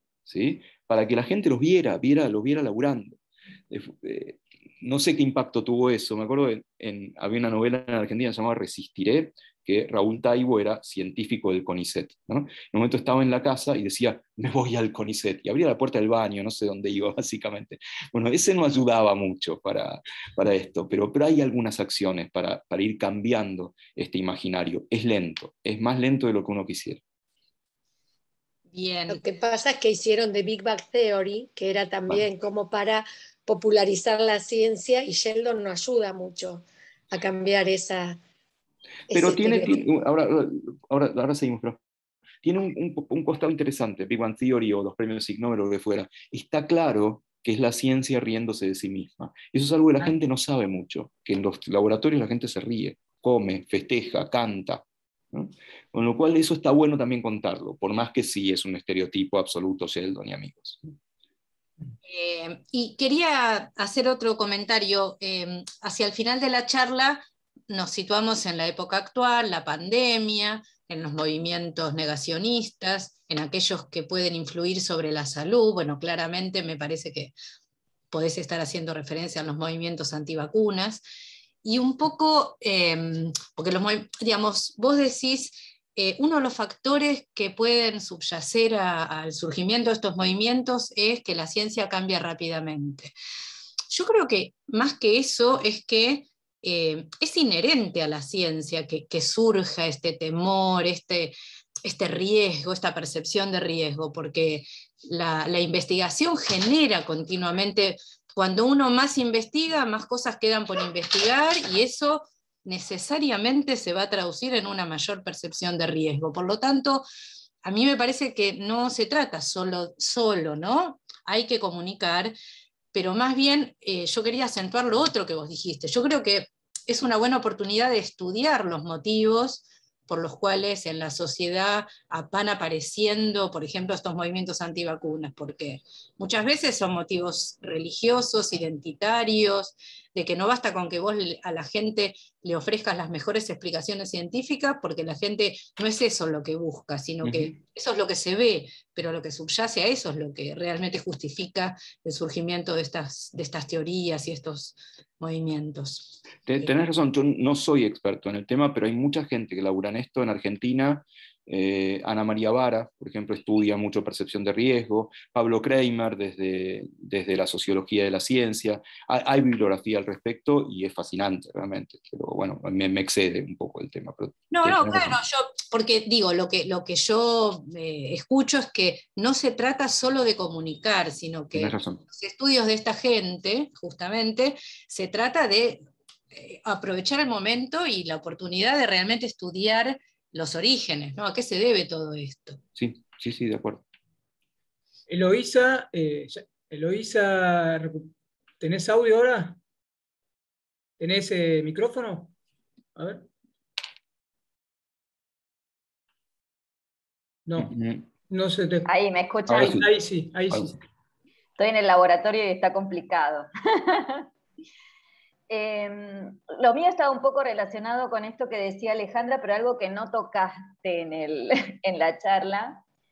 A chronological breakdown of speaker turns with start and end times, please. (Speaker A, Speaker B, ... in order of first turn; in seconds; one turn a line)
Speaker A: 0.3-3.2
Speaker A: 3.7-27.0
Speaker B: 28.7-29.2
Speaker C: 29.1-38.2
Speaker C: 39.1-39.8
Speaker A: 39.1-41.8
Speaker A: 42.4-60.9
Speaker B: 62.0-77.3
Speaker B: 78.1-81.0
Speaker B: 81.6-93.1
Speaker B: 93.9-117.1
Speaker B: 117.6-122.4
Speaker B: 122.9-156.8
Speaker A: 147.2-147.6
Speaker A: 156.5-175.2
Speaker B: 174.5-192.6
Speaker A: 181.5-182.0
Speaker A: 192.7-193.8
Speaker D: 195.1-199.6
Speaker D: 201.0-202.3
Speaker D: 202.9-203.3
Speaker D: 207.4-207.7
Speaker A: 207.6-208.1
Speaker D: 208.3-208.9
Speaker E: 208.8-209.8
Speaker D: 209.5-210.8
Speaker A: 209.6-209.9
Speaker E: 211.6-214.2
Speaker E: 215.5-222.8